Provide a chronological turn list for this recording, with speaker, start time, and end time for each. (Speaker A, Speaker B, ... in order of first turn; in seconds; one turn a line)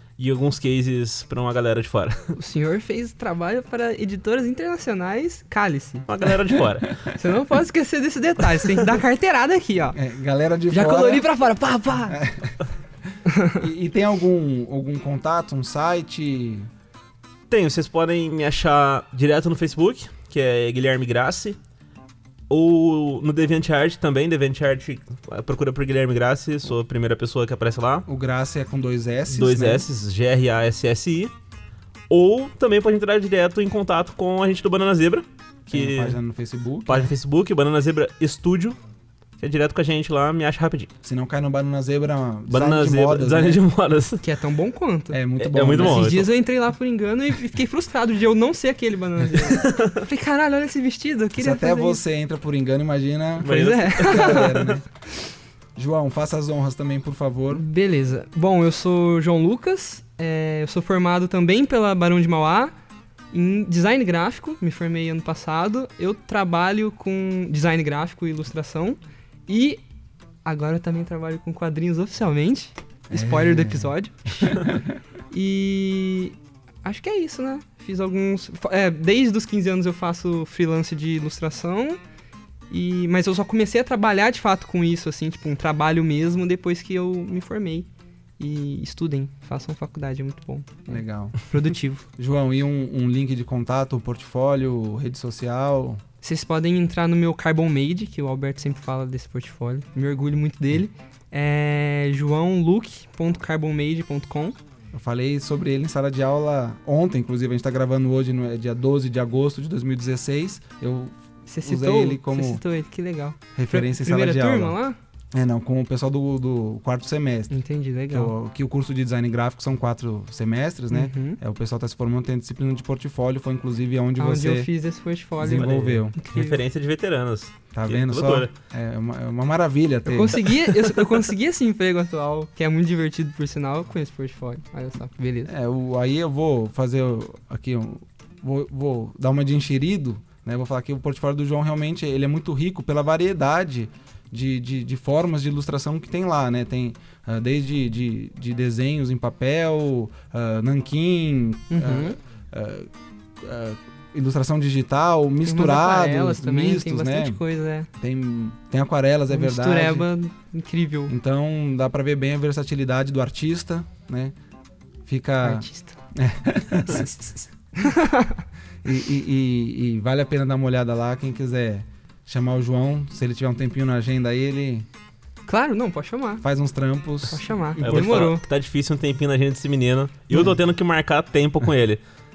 Speaker A: 0.2-2.3
Speaker B: 2.4-6.1
Speaker A: 6.1-7.0
Speaker B: 7.1-10.0
Speaker C: 9.9-11.3
Speaker B: 10.7-12.2
Speaker C: 12.1-12.6
Speaker B: 13.3-13.6
Speaker C: 13.6-16.7
Speaker A: 17.5-21.6
Speaker A: 22.5-28.1
Speaker C: 28.1-29.9
Speaker A: 29.3-31.3
Speaker A: 32.1-36.2
Speaker C: 35.7-37.1
Speaker A: 36.9-38.8
Speaker A: 39.4-40.9
Speaker C: 41.0-43.6
Speaker A: 42.5-44.2
Speaker B: 44.2-45.2
Speaker C: 45.1-46.2
Speaker A: 45.4-46.3
Speaker B: 45.8-52.0
Speaker A: 49.3-50.0
Speaker C: 51.4-54.9
Speaker B: 53.4-54.8
Speaker A: 53.4-54.5
Speaker C: 55.8-57.6
Speaker B: 57.5-62.7
Speaker B: 63.3-69.8
Speaker B: 70.5-74.8
Speaker C: 73.1-74.9
Speaker B: 75.3-82.0
Speaker B: 82.7-87.9
Speaker B: 88.4-92.1
Speaker C: 90.9-91.4
Speaker C: 92.2-96.0
Speaker B: 96.2-104.6
Speaker C: 104.9-112.6
Speaker B: 111.5-115.0
Speaker C: 113.6-114.8
Speaker C: 115.3-117.6
Speaker B: 117.5-118.3
Speaker C: 118.1-124.7
Speaker B: 120.9-121.4
Speaker B: 124.2-126.6
Speaker C: 125.4-126.2
Speaker A: 125.5-128.5
Speaker C: 127.7-130.4
Speaker B: 130.1-135.5
Speaker A: 130.7-131.1
Speaker C: 135.5-157.4
Speaker B: 151.7-152.2
Speaker B: 155.4-157.9
Speaker C: 158.0-160.1
Speaker B: 159.3-161.1
Speaker C: 161.1-164.3
Speaker C: 165.1-167.5
Speaker B: 165.4-166.0
Speaker B: 167.8-168.4
Speaker C: 168.8-174.9
Speaker B: 175.5-176.4
Speaker C: 176.4-178.3
Speaker B: 177.3-178.4
Speaker A: 177.8-182.0